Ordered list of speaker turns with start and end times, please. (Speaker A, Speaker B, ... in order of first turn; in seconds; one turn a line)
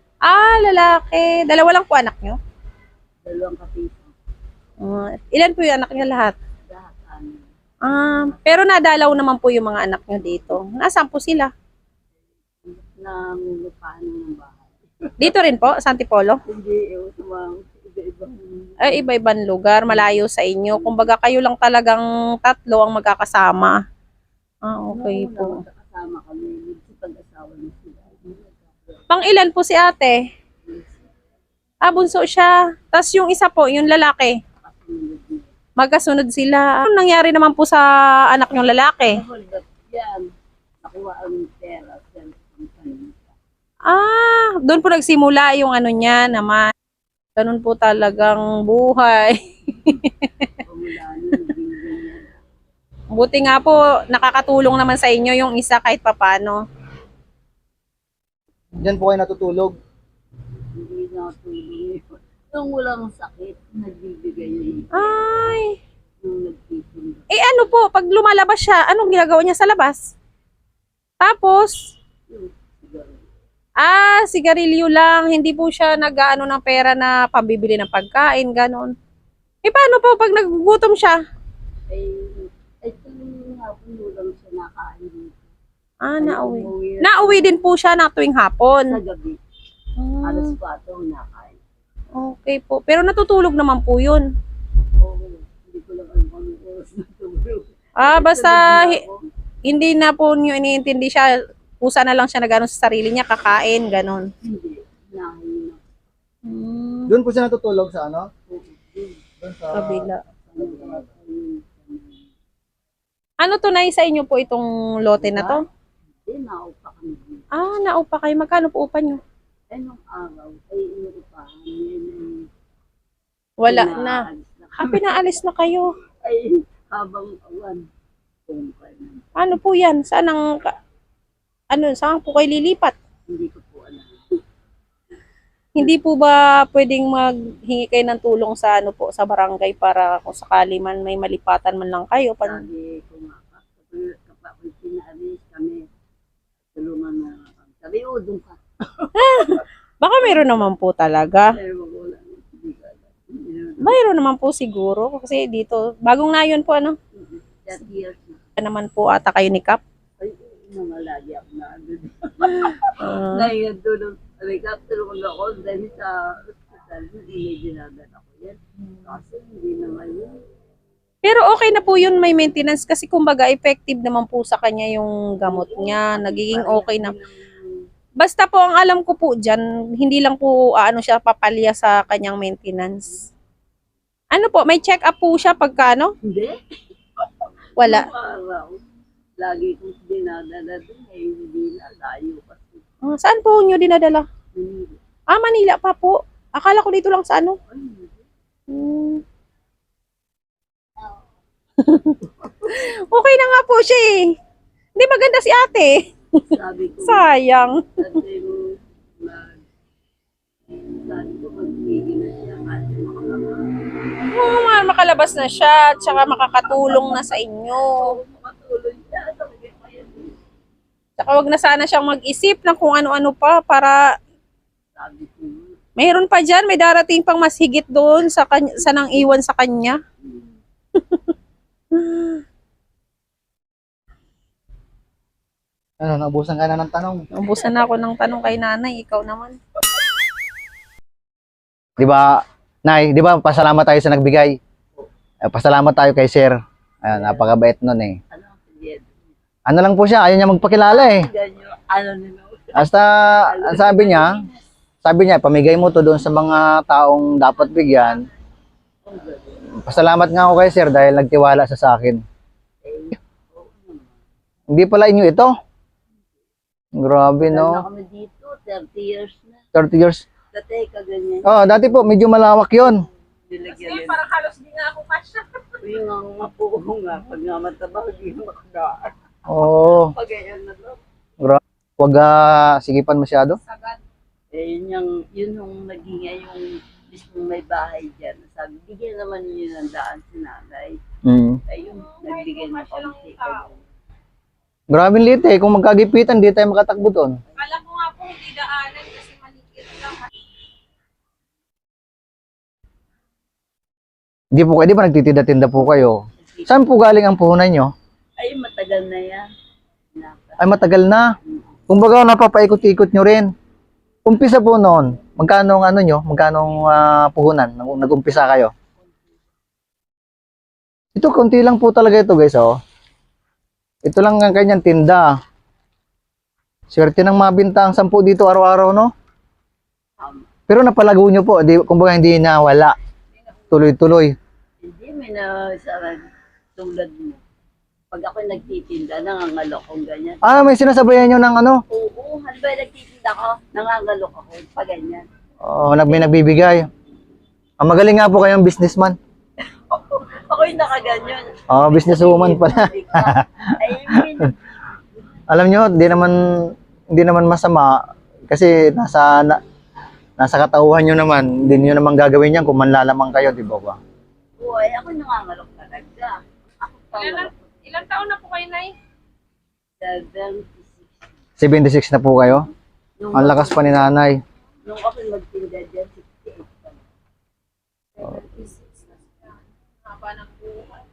Speaker A: 0.3-2.4
Speaker B: 3.2-4.2
Speaker A: 4.8-6.3
Speaker B: 6.6-7.5
Speaker A: 7.8-11.5
Speaker B: 8.1-8.4
Speaker B: 12.6-15.3
Speaker A: 15.2-16.4
Speaker B: 16.4-19.1
Speaker A: 18.8-23.8
Speaker B: 19.9-21.1
Speaker A: 24.6-25.6
Speaker B: 24.9-29.1
Speaker A: 29.1-30.3
Speaker B: 30.6-31.1
Speaker A: 31.8-34.4
Speaker B: 34.6-35.5
Speaker A: 35.8-39.2
Speaker B: 39.0-40.2
Speaker B: 40.8-43.4
Speaker A: 43.9-46.6
Speaker A: 47.4-50.5
Speaker B: 50.6-52.4
Speaker A: 53.1-56.6
Speaker C: 58.8-59.8
Speaker B: 60.7-65.2
Speaker A: 64.9-65.8
Speaker B: 66.2-67.3
Speaker A: 67.3-70.0
Speaker A: 71.2-71.8
Speaker B: 72.3-73.3
Speaker A: 73.8-78.9
Speaker A: 79.6-81.2
Speaker B: 81.9-85.5
Speaker A: 86.0-89.0
Speaker B: 86.2-87.6
Speaker B: 88.9-89.4
Speaker A: 90.0-90.5
Speaker B: 90.2-91.6
Speaker A: 92.2-94.2
Speaker B: 95.0-99.2
Speaker A: 98.0-99.0
Speaker A: 99.6-104.3
Speaker B: 104.4-105.8
Speaker A: 106.4-107.1
Speaker C: 107.1-108.3
Speaker B: 108.5-109.2
Speaker C: 109.4-111.0
Speaker A: 109.7-110.2
Speaker B: 110.4-112.3
Speaker A: 113.4-115.6
Speaker B: 115.2-115.6
Speaker B: 116.2-117.5
Speaker A: 117.5-119.2
Speaker B: 119.7-122.5
Speaker A: 123.6-124.2
Speaker B: 123.6-125.2
Speaker A: 124.8-125.9
Speaker B: 126.2-127.8
Speaker B: 128.5-129.3
Speaker A: 129.3-130.8
Speaker A: 131.7-132.9
Speaker B: 133.3-134.4
Speaker A: 135.8-142.6
Speaker B: 142.4-145.8
Speaker B: 146.8-149.1
Speaker A: 149.1-151.5
Speaker B: 151.5-153.9
Speaker A: 153.8-157.0
Speaker B: 157.1-158.5
Speaker A: 158.6-159.8
Speaker B: 160.2-170.4
Speaker A: 162.9-163.5
Speaker A: 171.2-177.1
Speaker B: 175.4-177.8
Speaker A: 178.2-183.1
Speaker A: 184.3-186.1
Speaker B: 186.2-186.6
Speaker B: 187.4-188.8
Speaker A: 187.8-188.1
Speaker B: 189.4-192.8
Speaker A: 193.0-194.2
Speaker B: 194.5-195.0
Speaker A: 195.3-197.6
Speaker B: 197.7-198.2
Speaker A: 198.7-199.2
Speaker A: 201.8-204.3
Speaker B: 202.4-202.7
Speaker A: 205.0-206.0
Speaker B: 206.5-207.4
Speaker A: 207.1-207.8
Speaker B: 207.9-209.6
Speaker B: 210.8-213.7
Speaker A: 214.3-218.1
Speaker B: 217.9-220.4
Speaker A: 221.2-224.0
Speaker B: 224.9-225.8
Speaker A: 226.0-230.0
Speaker B: 230.2-230.5
Speaker A: 230.9-231.3
Speaker A: 231.9-232.4
Speaker C: 236.0-237.2
Speaker A: 237.3-239.6
Speaker C: 242.0-244.6
Speaker C: 245.4-248.2
Speaker B: 247.1-247.5
Speaker B: 248.3-249.3
Speaker C: 249.7-251.3
Speaker B: 250.9-254.5
Speaker C: 252.7-254.4
Speaker C: 255.0-258.2
Speaker B: 259.0-259.7
Speaker C: 259.8-262.2
Speaker B: 262.8-264.2
Speaker C: 264.7-265.5
Speaker C: 267.0-267.8
Speaker B: 267.5-269.6
Speaker C: 269.7-270.2
Speaker B: 270.5-272.1
Speaker C: 271.4-273.0
Speaker B: 273.5-274.2
Speaker A: 273.7-275.8
Speaker B: 275.8-279.1
Speaker C: 279.5-280.1
Speaker B: 280.1-281.0
Speaker C: 281.4-283.6
Speaker A: 283.7-284.0
Speaker B: 284.5-291.0
Speaker C: 291.2-291.6
Speaker B: 291.7-293.9
Speaker A: 292.0-293.6
Speaker C: 294.9-297.4
Speaker A: 297.6-300.3
Speaker C: 304.5-307.9
Speaker B: 306.4-306.7
Speaker B: 308.4-309.4
Speaker B: 310.1-310.9
Speaker C: 310.6-311.3
Speaker B: 311.4-311.7
Speaker C: 311.9-313.5
Speaker C: 314.2-318.7
Speaker C: 321.1-322.7
Speaker C: 324.0-325.4
Speaker C: 326.9-329.1
Speaker B: 330.2-330.5
Speaker C: 330.7-332.9
Speaker C: 333.7-334.4
Speaker B: 334.8-337.4
Speaker B: 338.1-340.8
Speaker C: 340.4-341.8
Speaker B: 341.9-345.3
Speaker C: 345.6-346.9
Speaker C: 347.8-349.2
Speaker B: 349.9-354.6
Speaker C: 351.7-354.4
Speaker C: 355.5-359.6
Speaker C: 360.4-364.0
Speaker B: 364.6-368.1
Speaker A: 367.1-368.9
Speaker B: 370.0-371.1
Speaker C: 371.6-372.7
Speaker B: 373.2-374.1
Speaker C: 373.4-374.4
Speaker B: 374.9-377.0
Speaker A: 378.2-381.0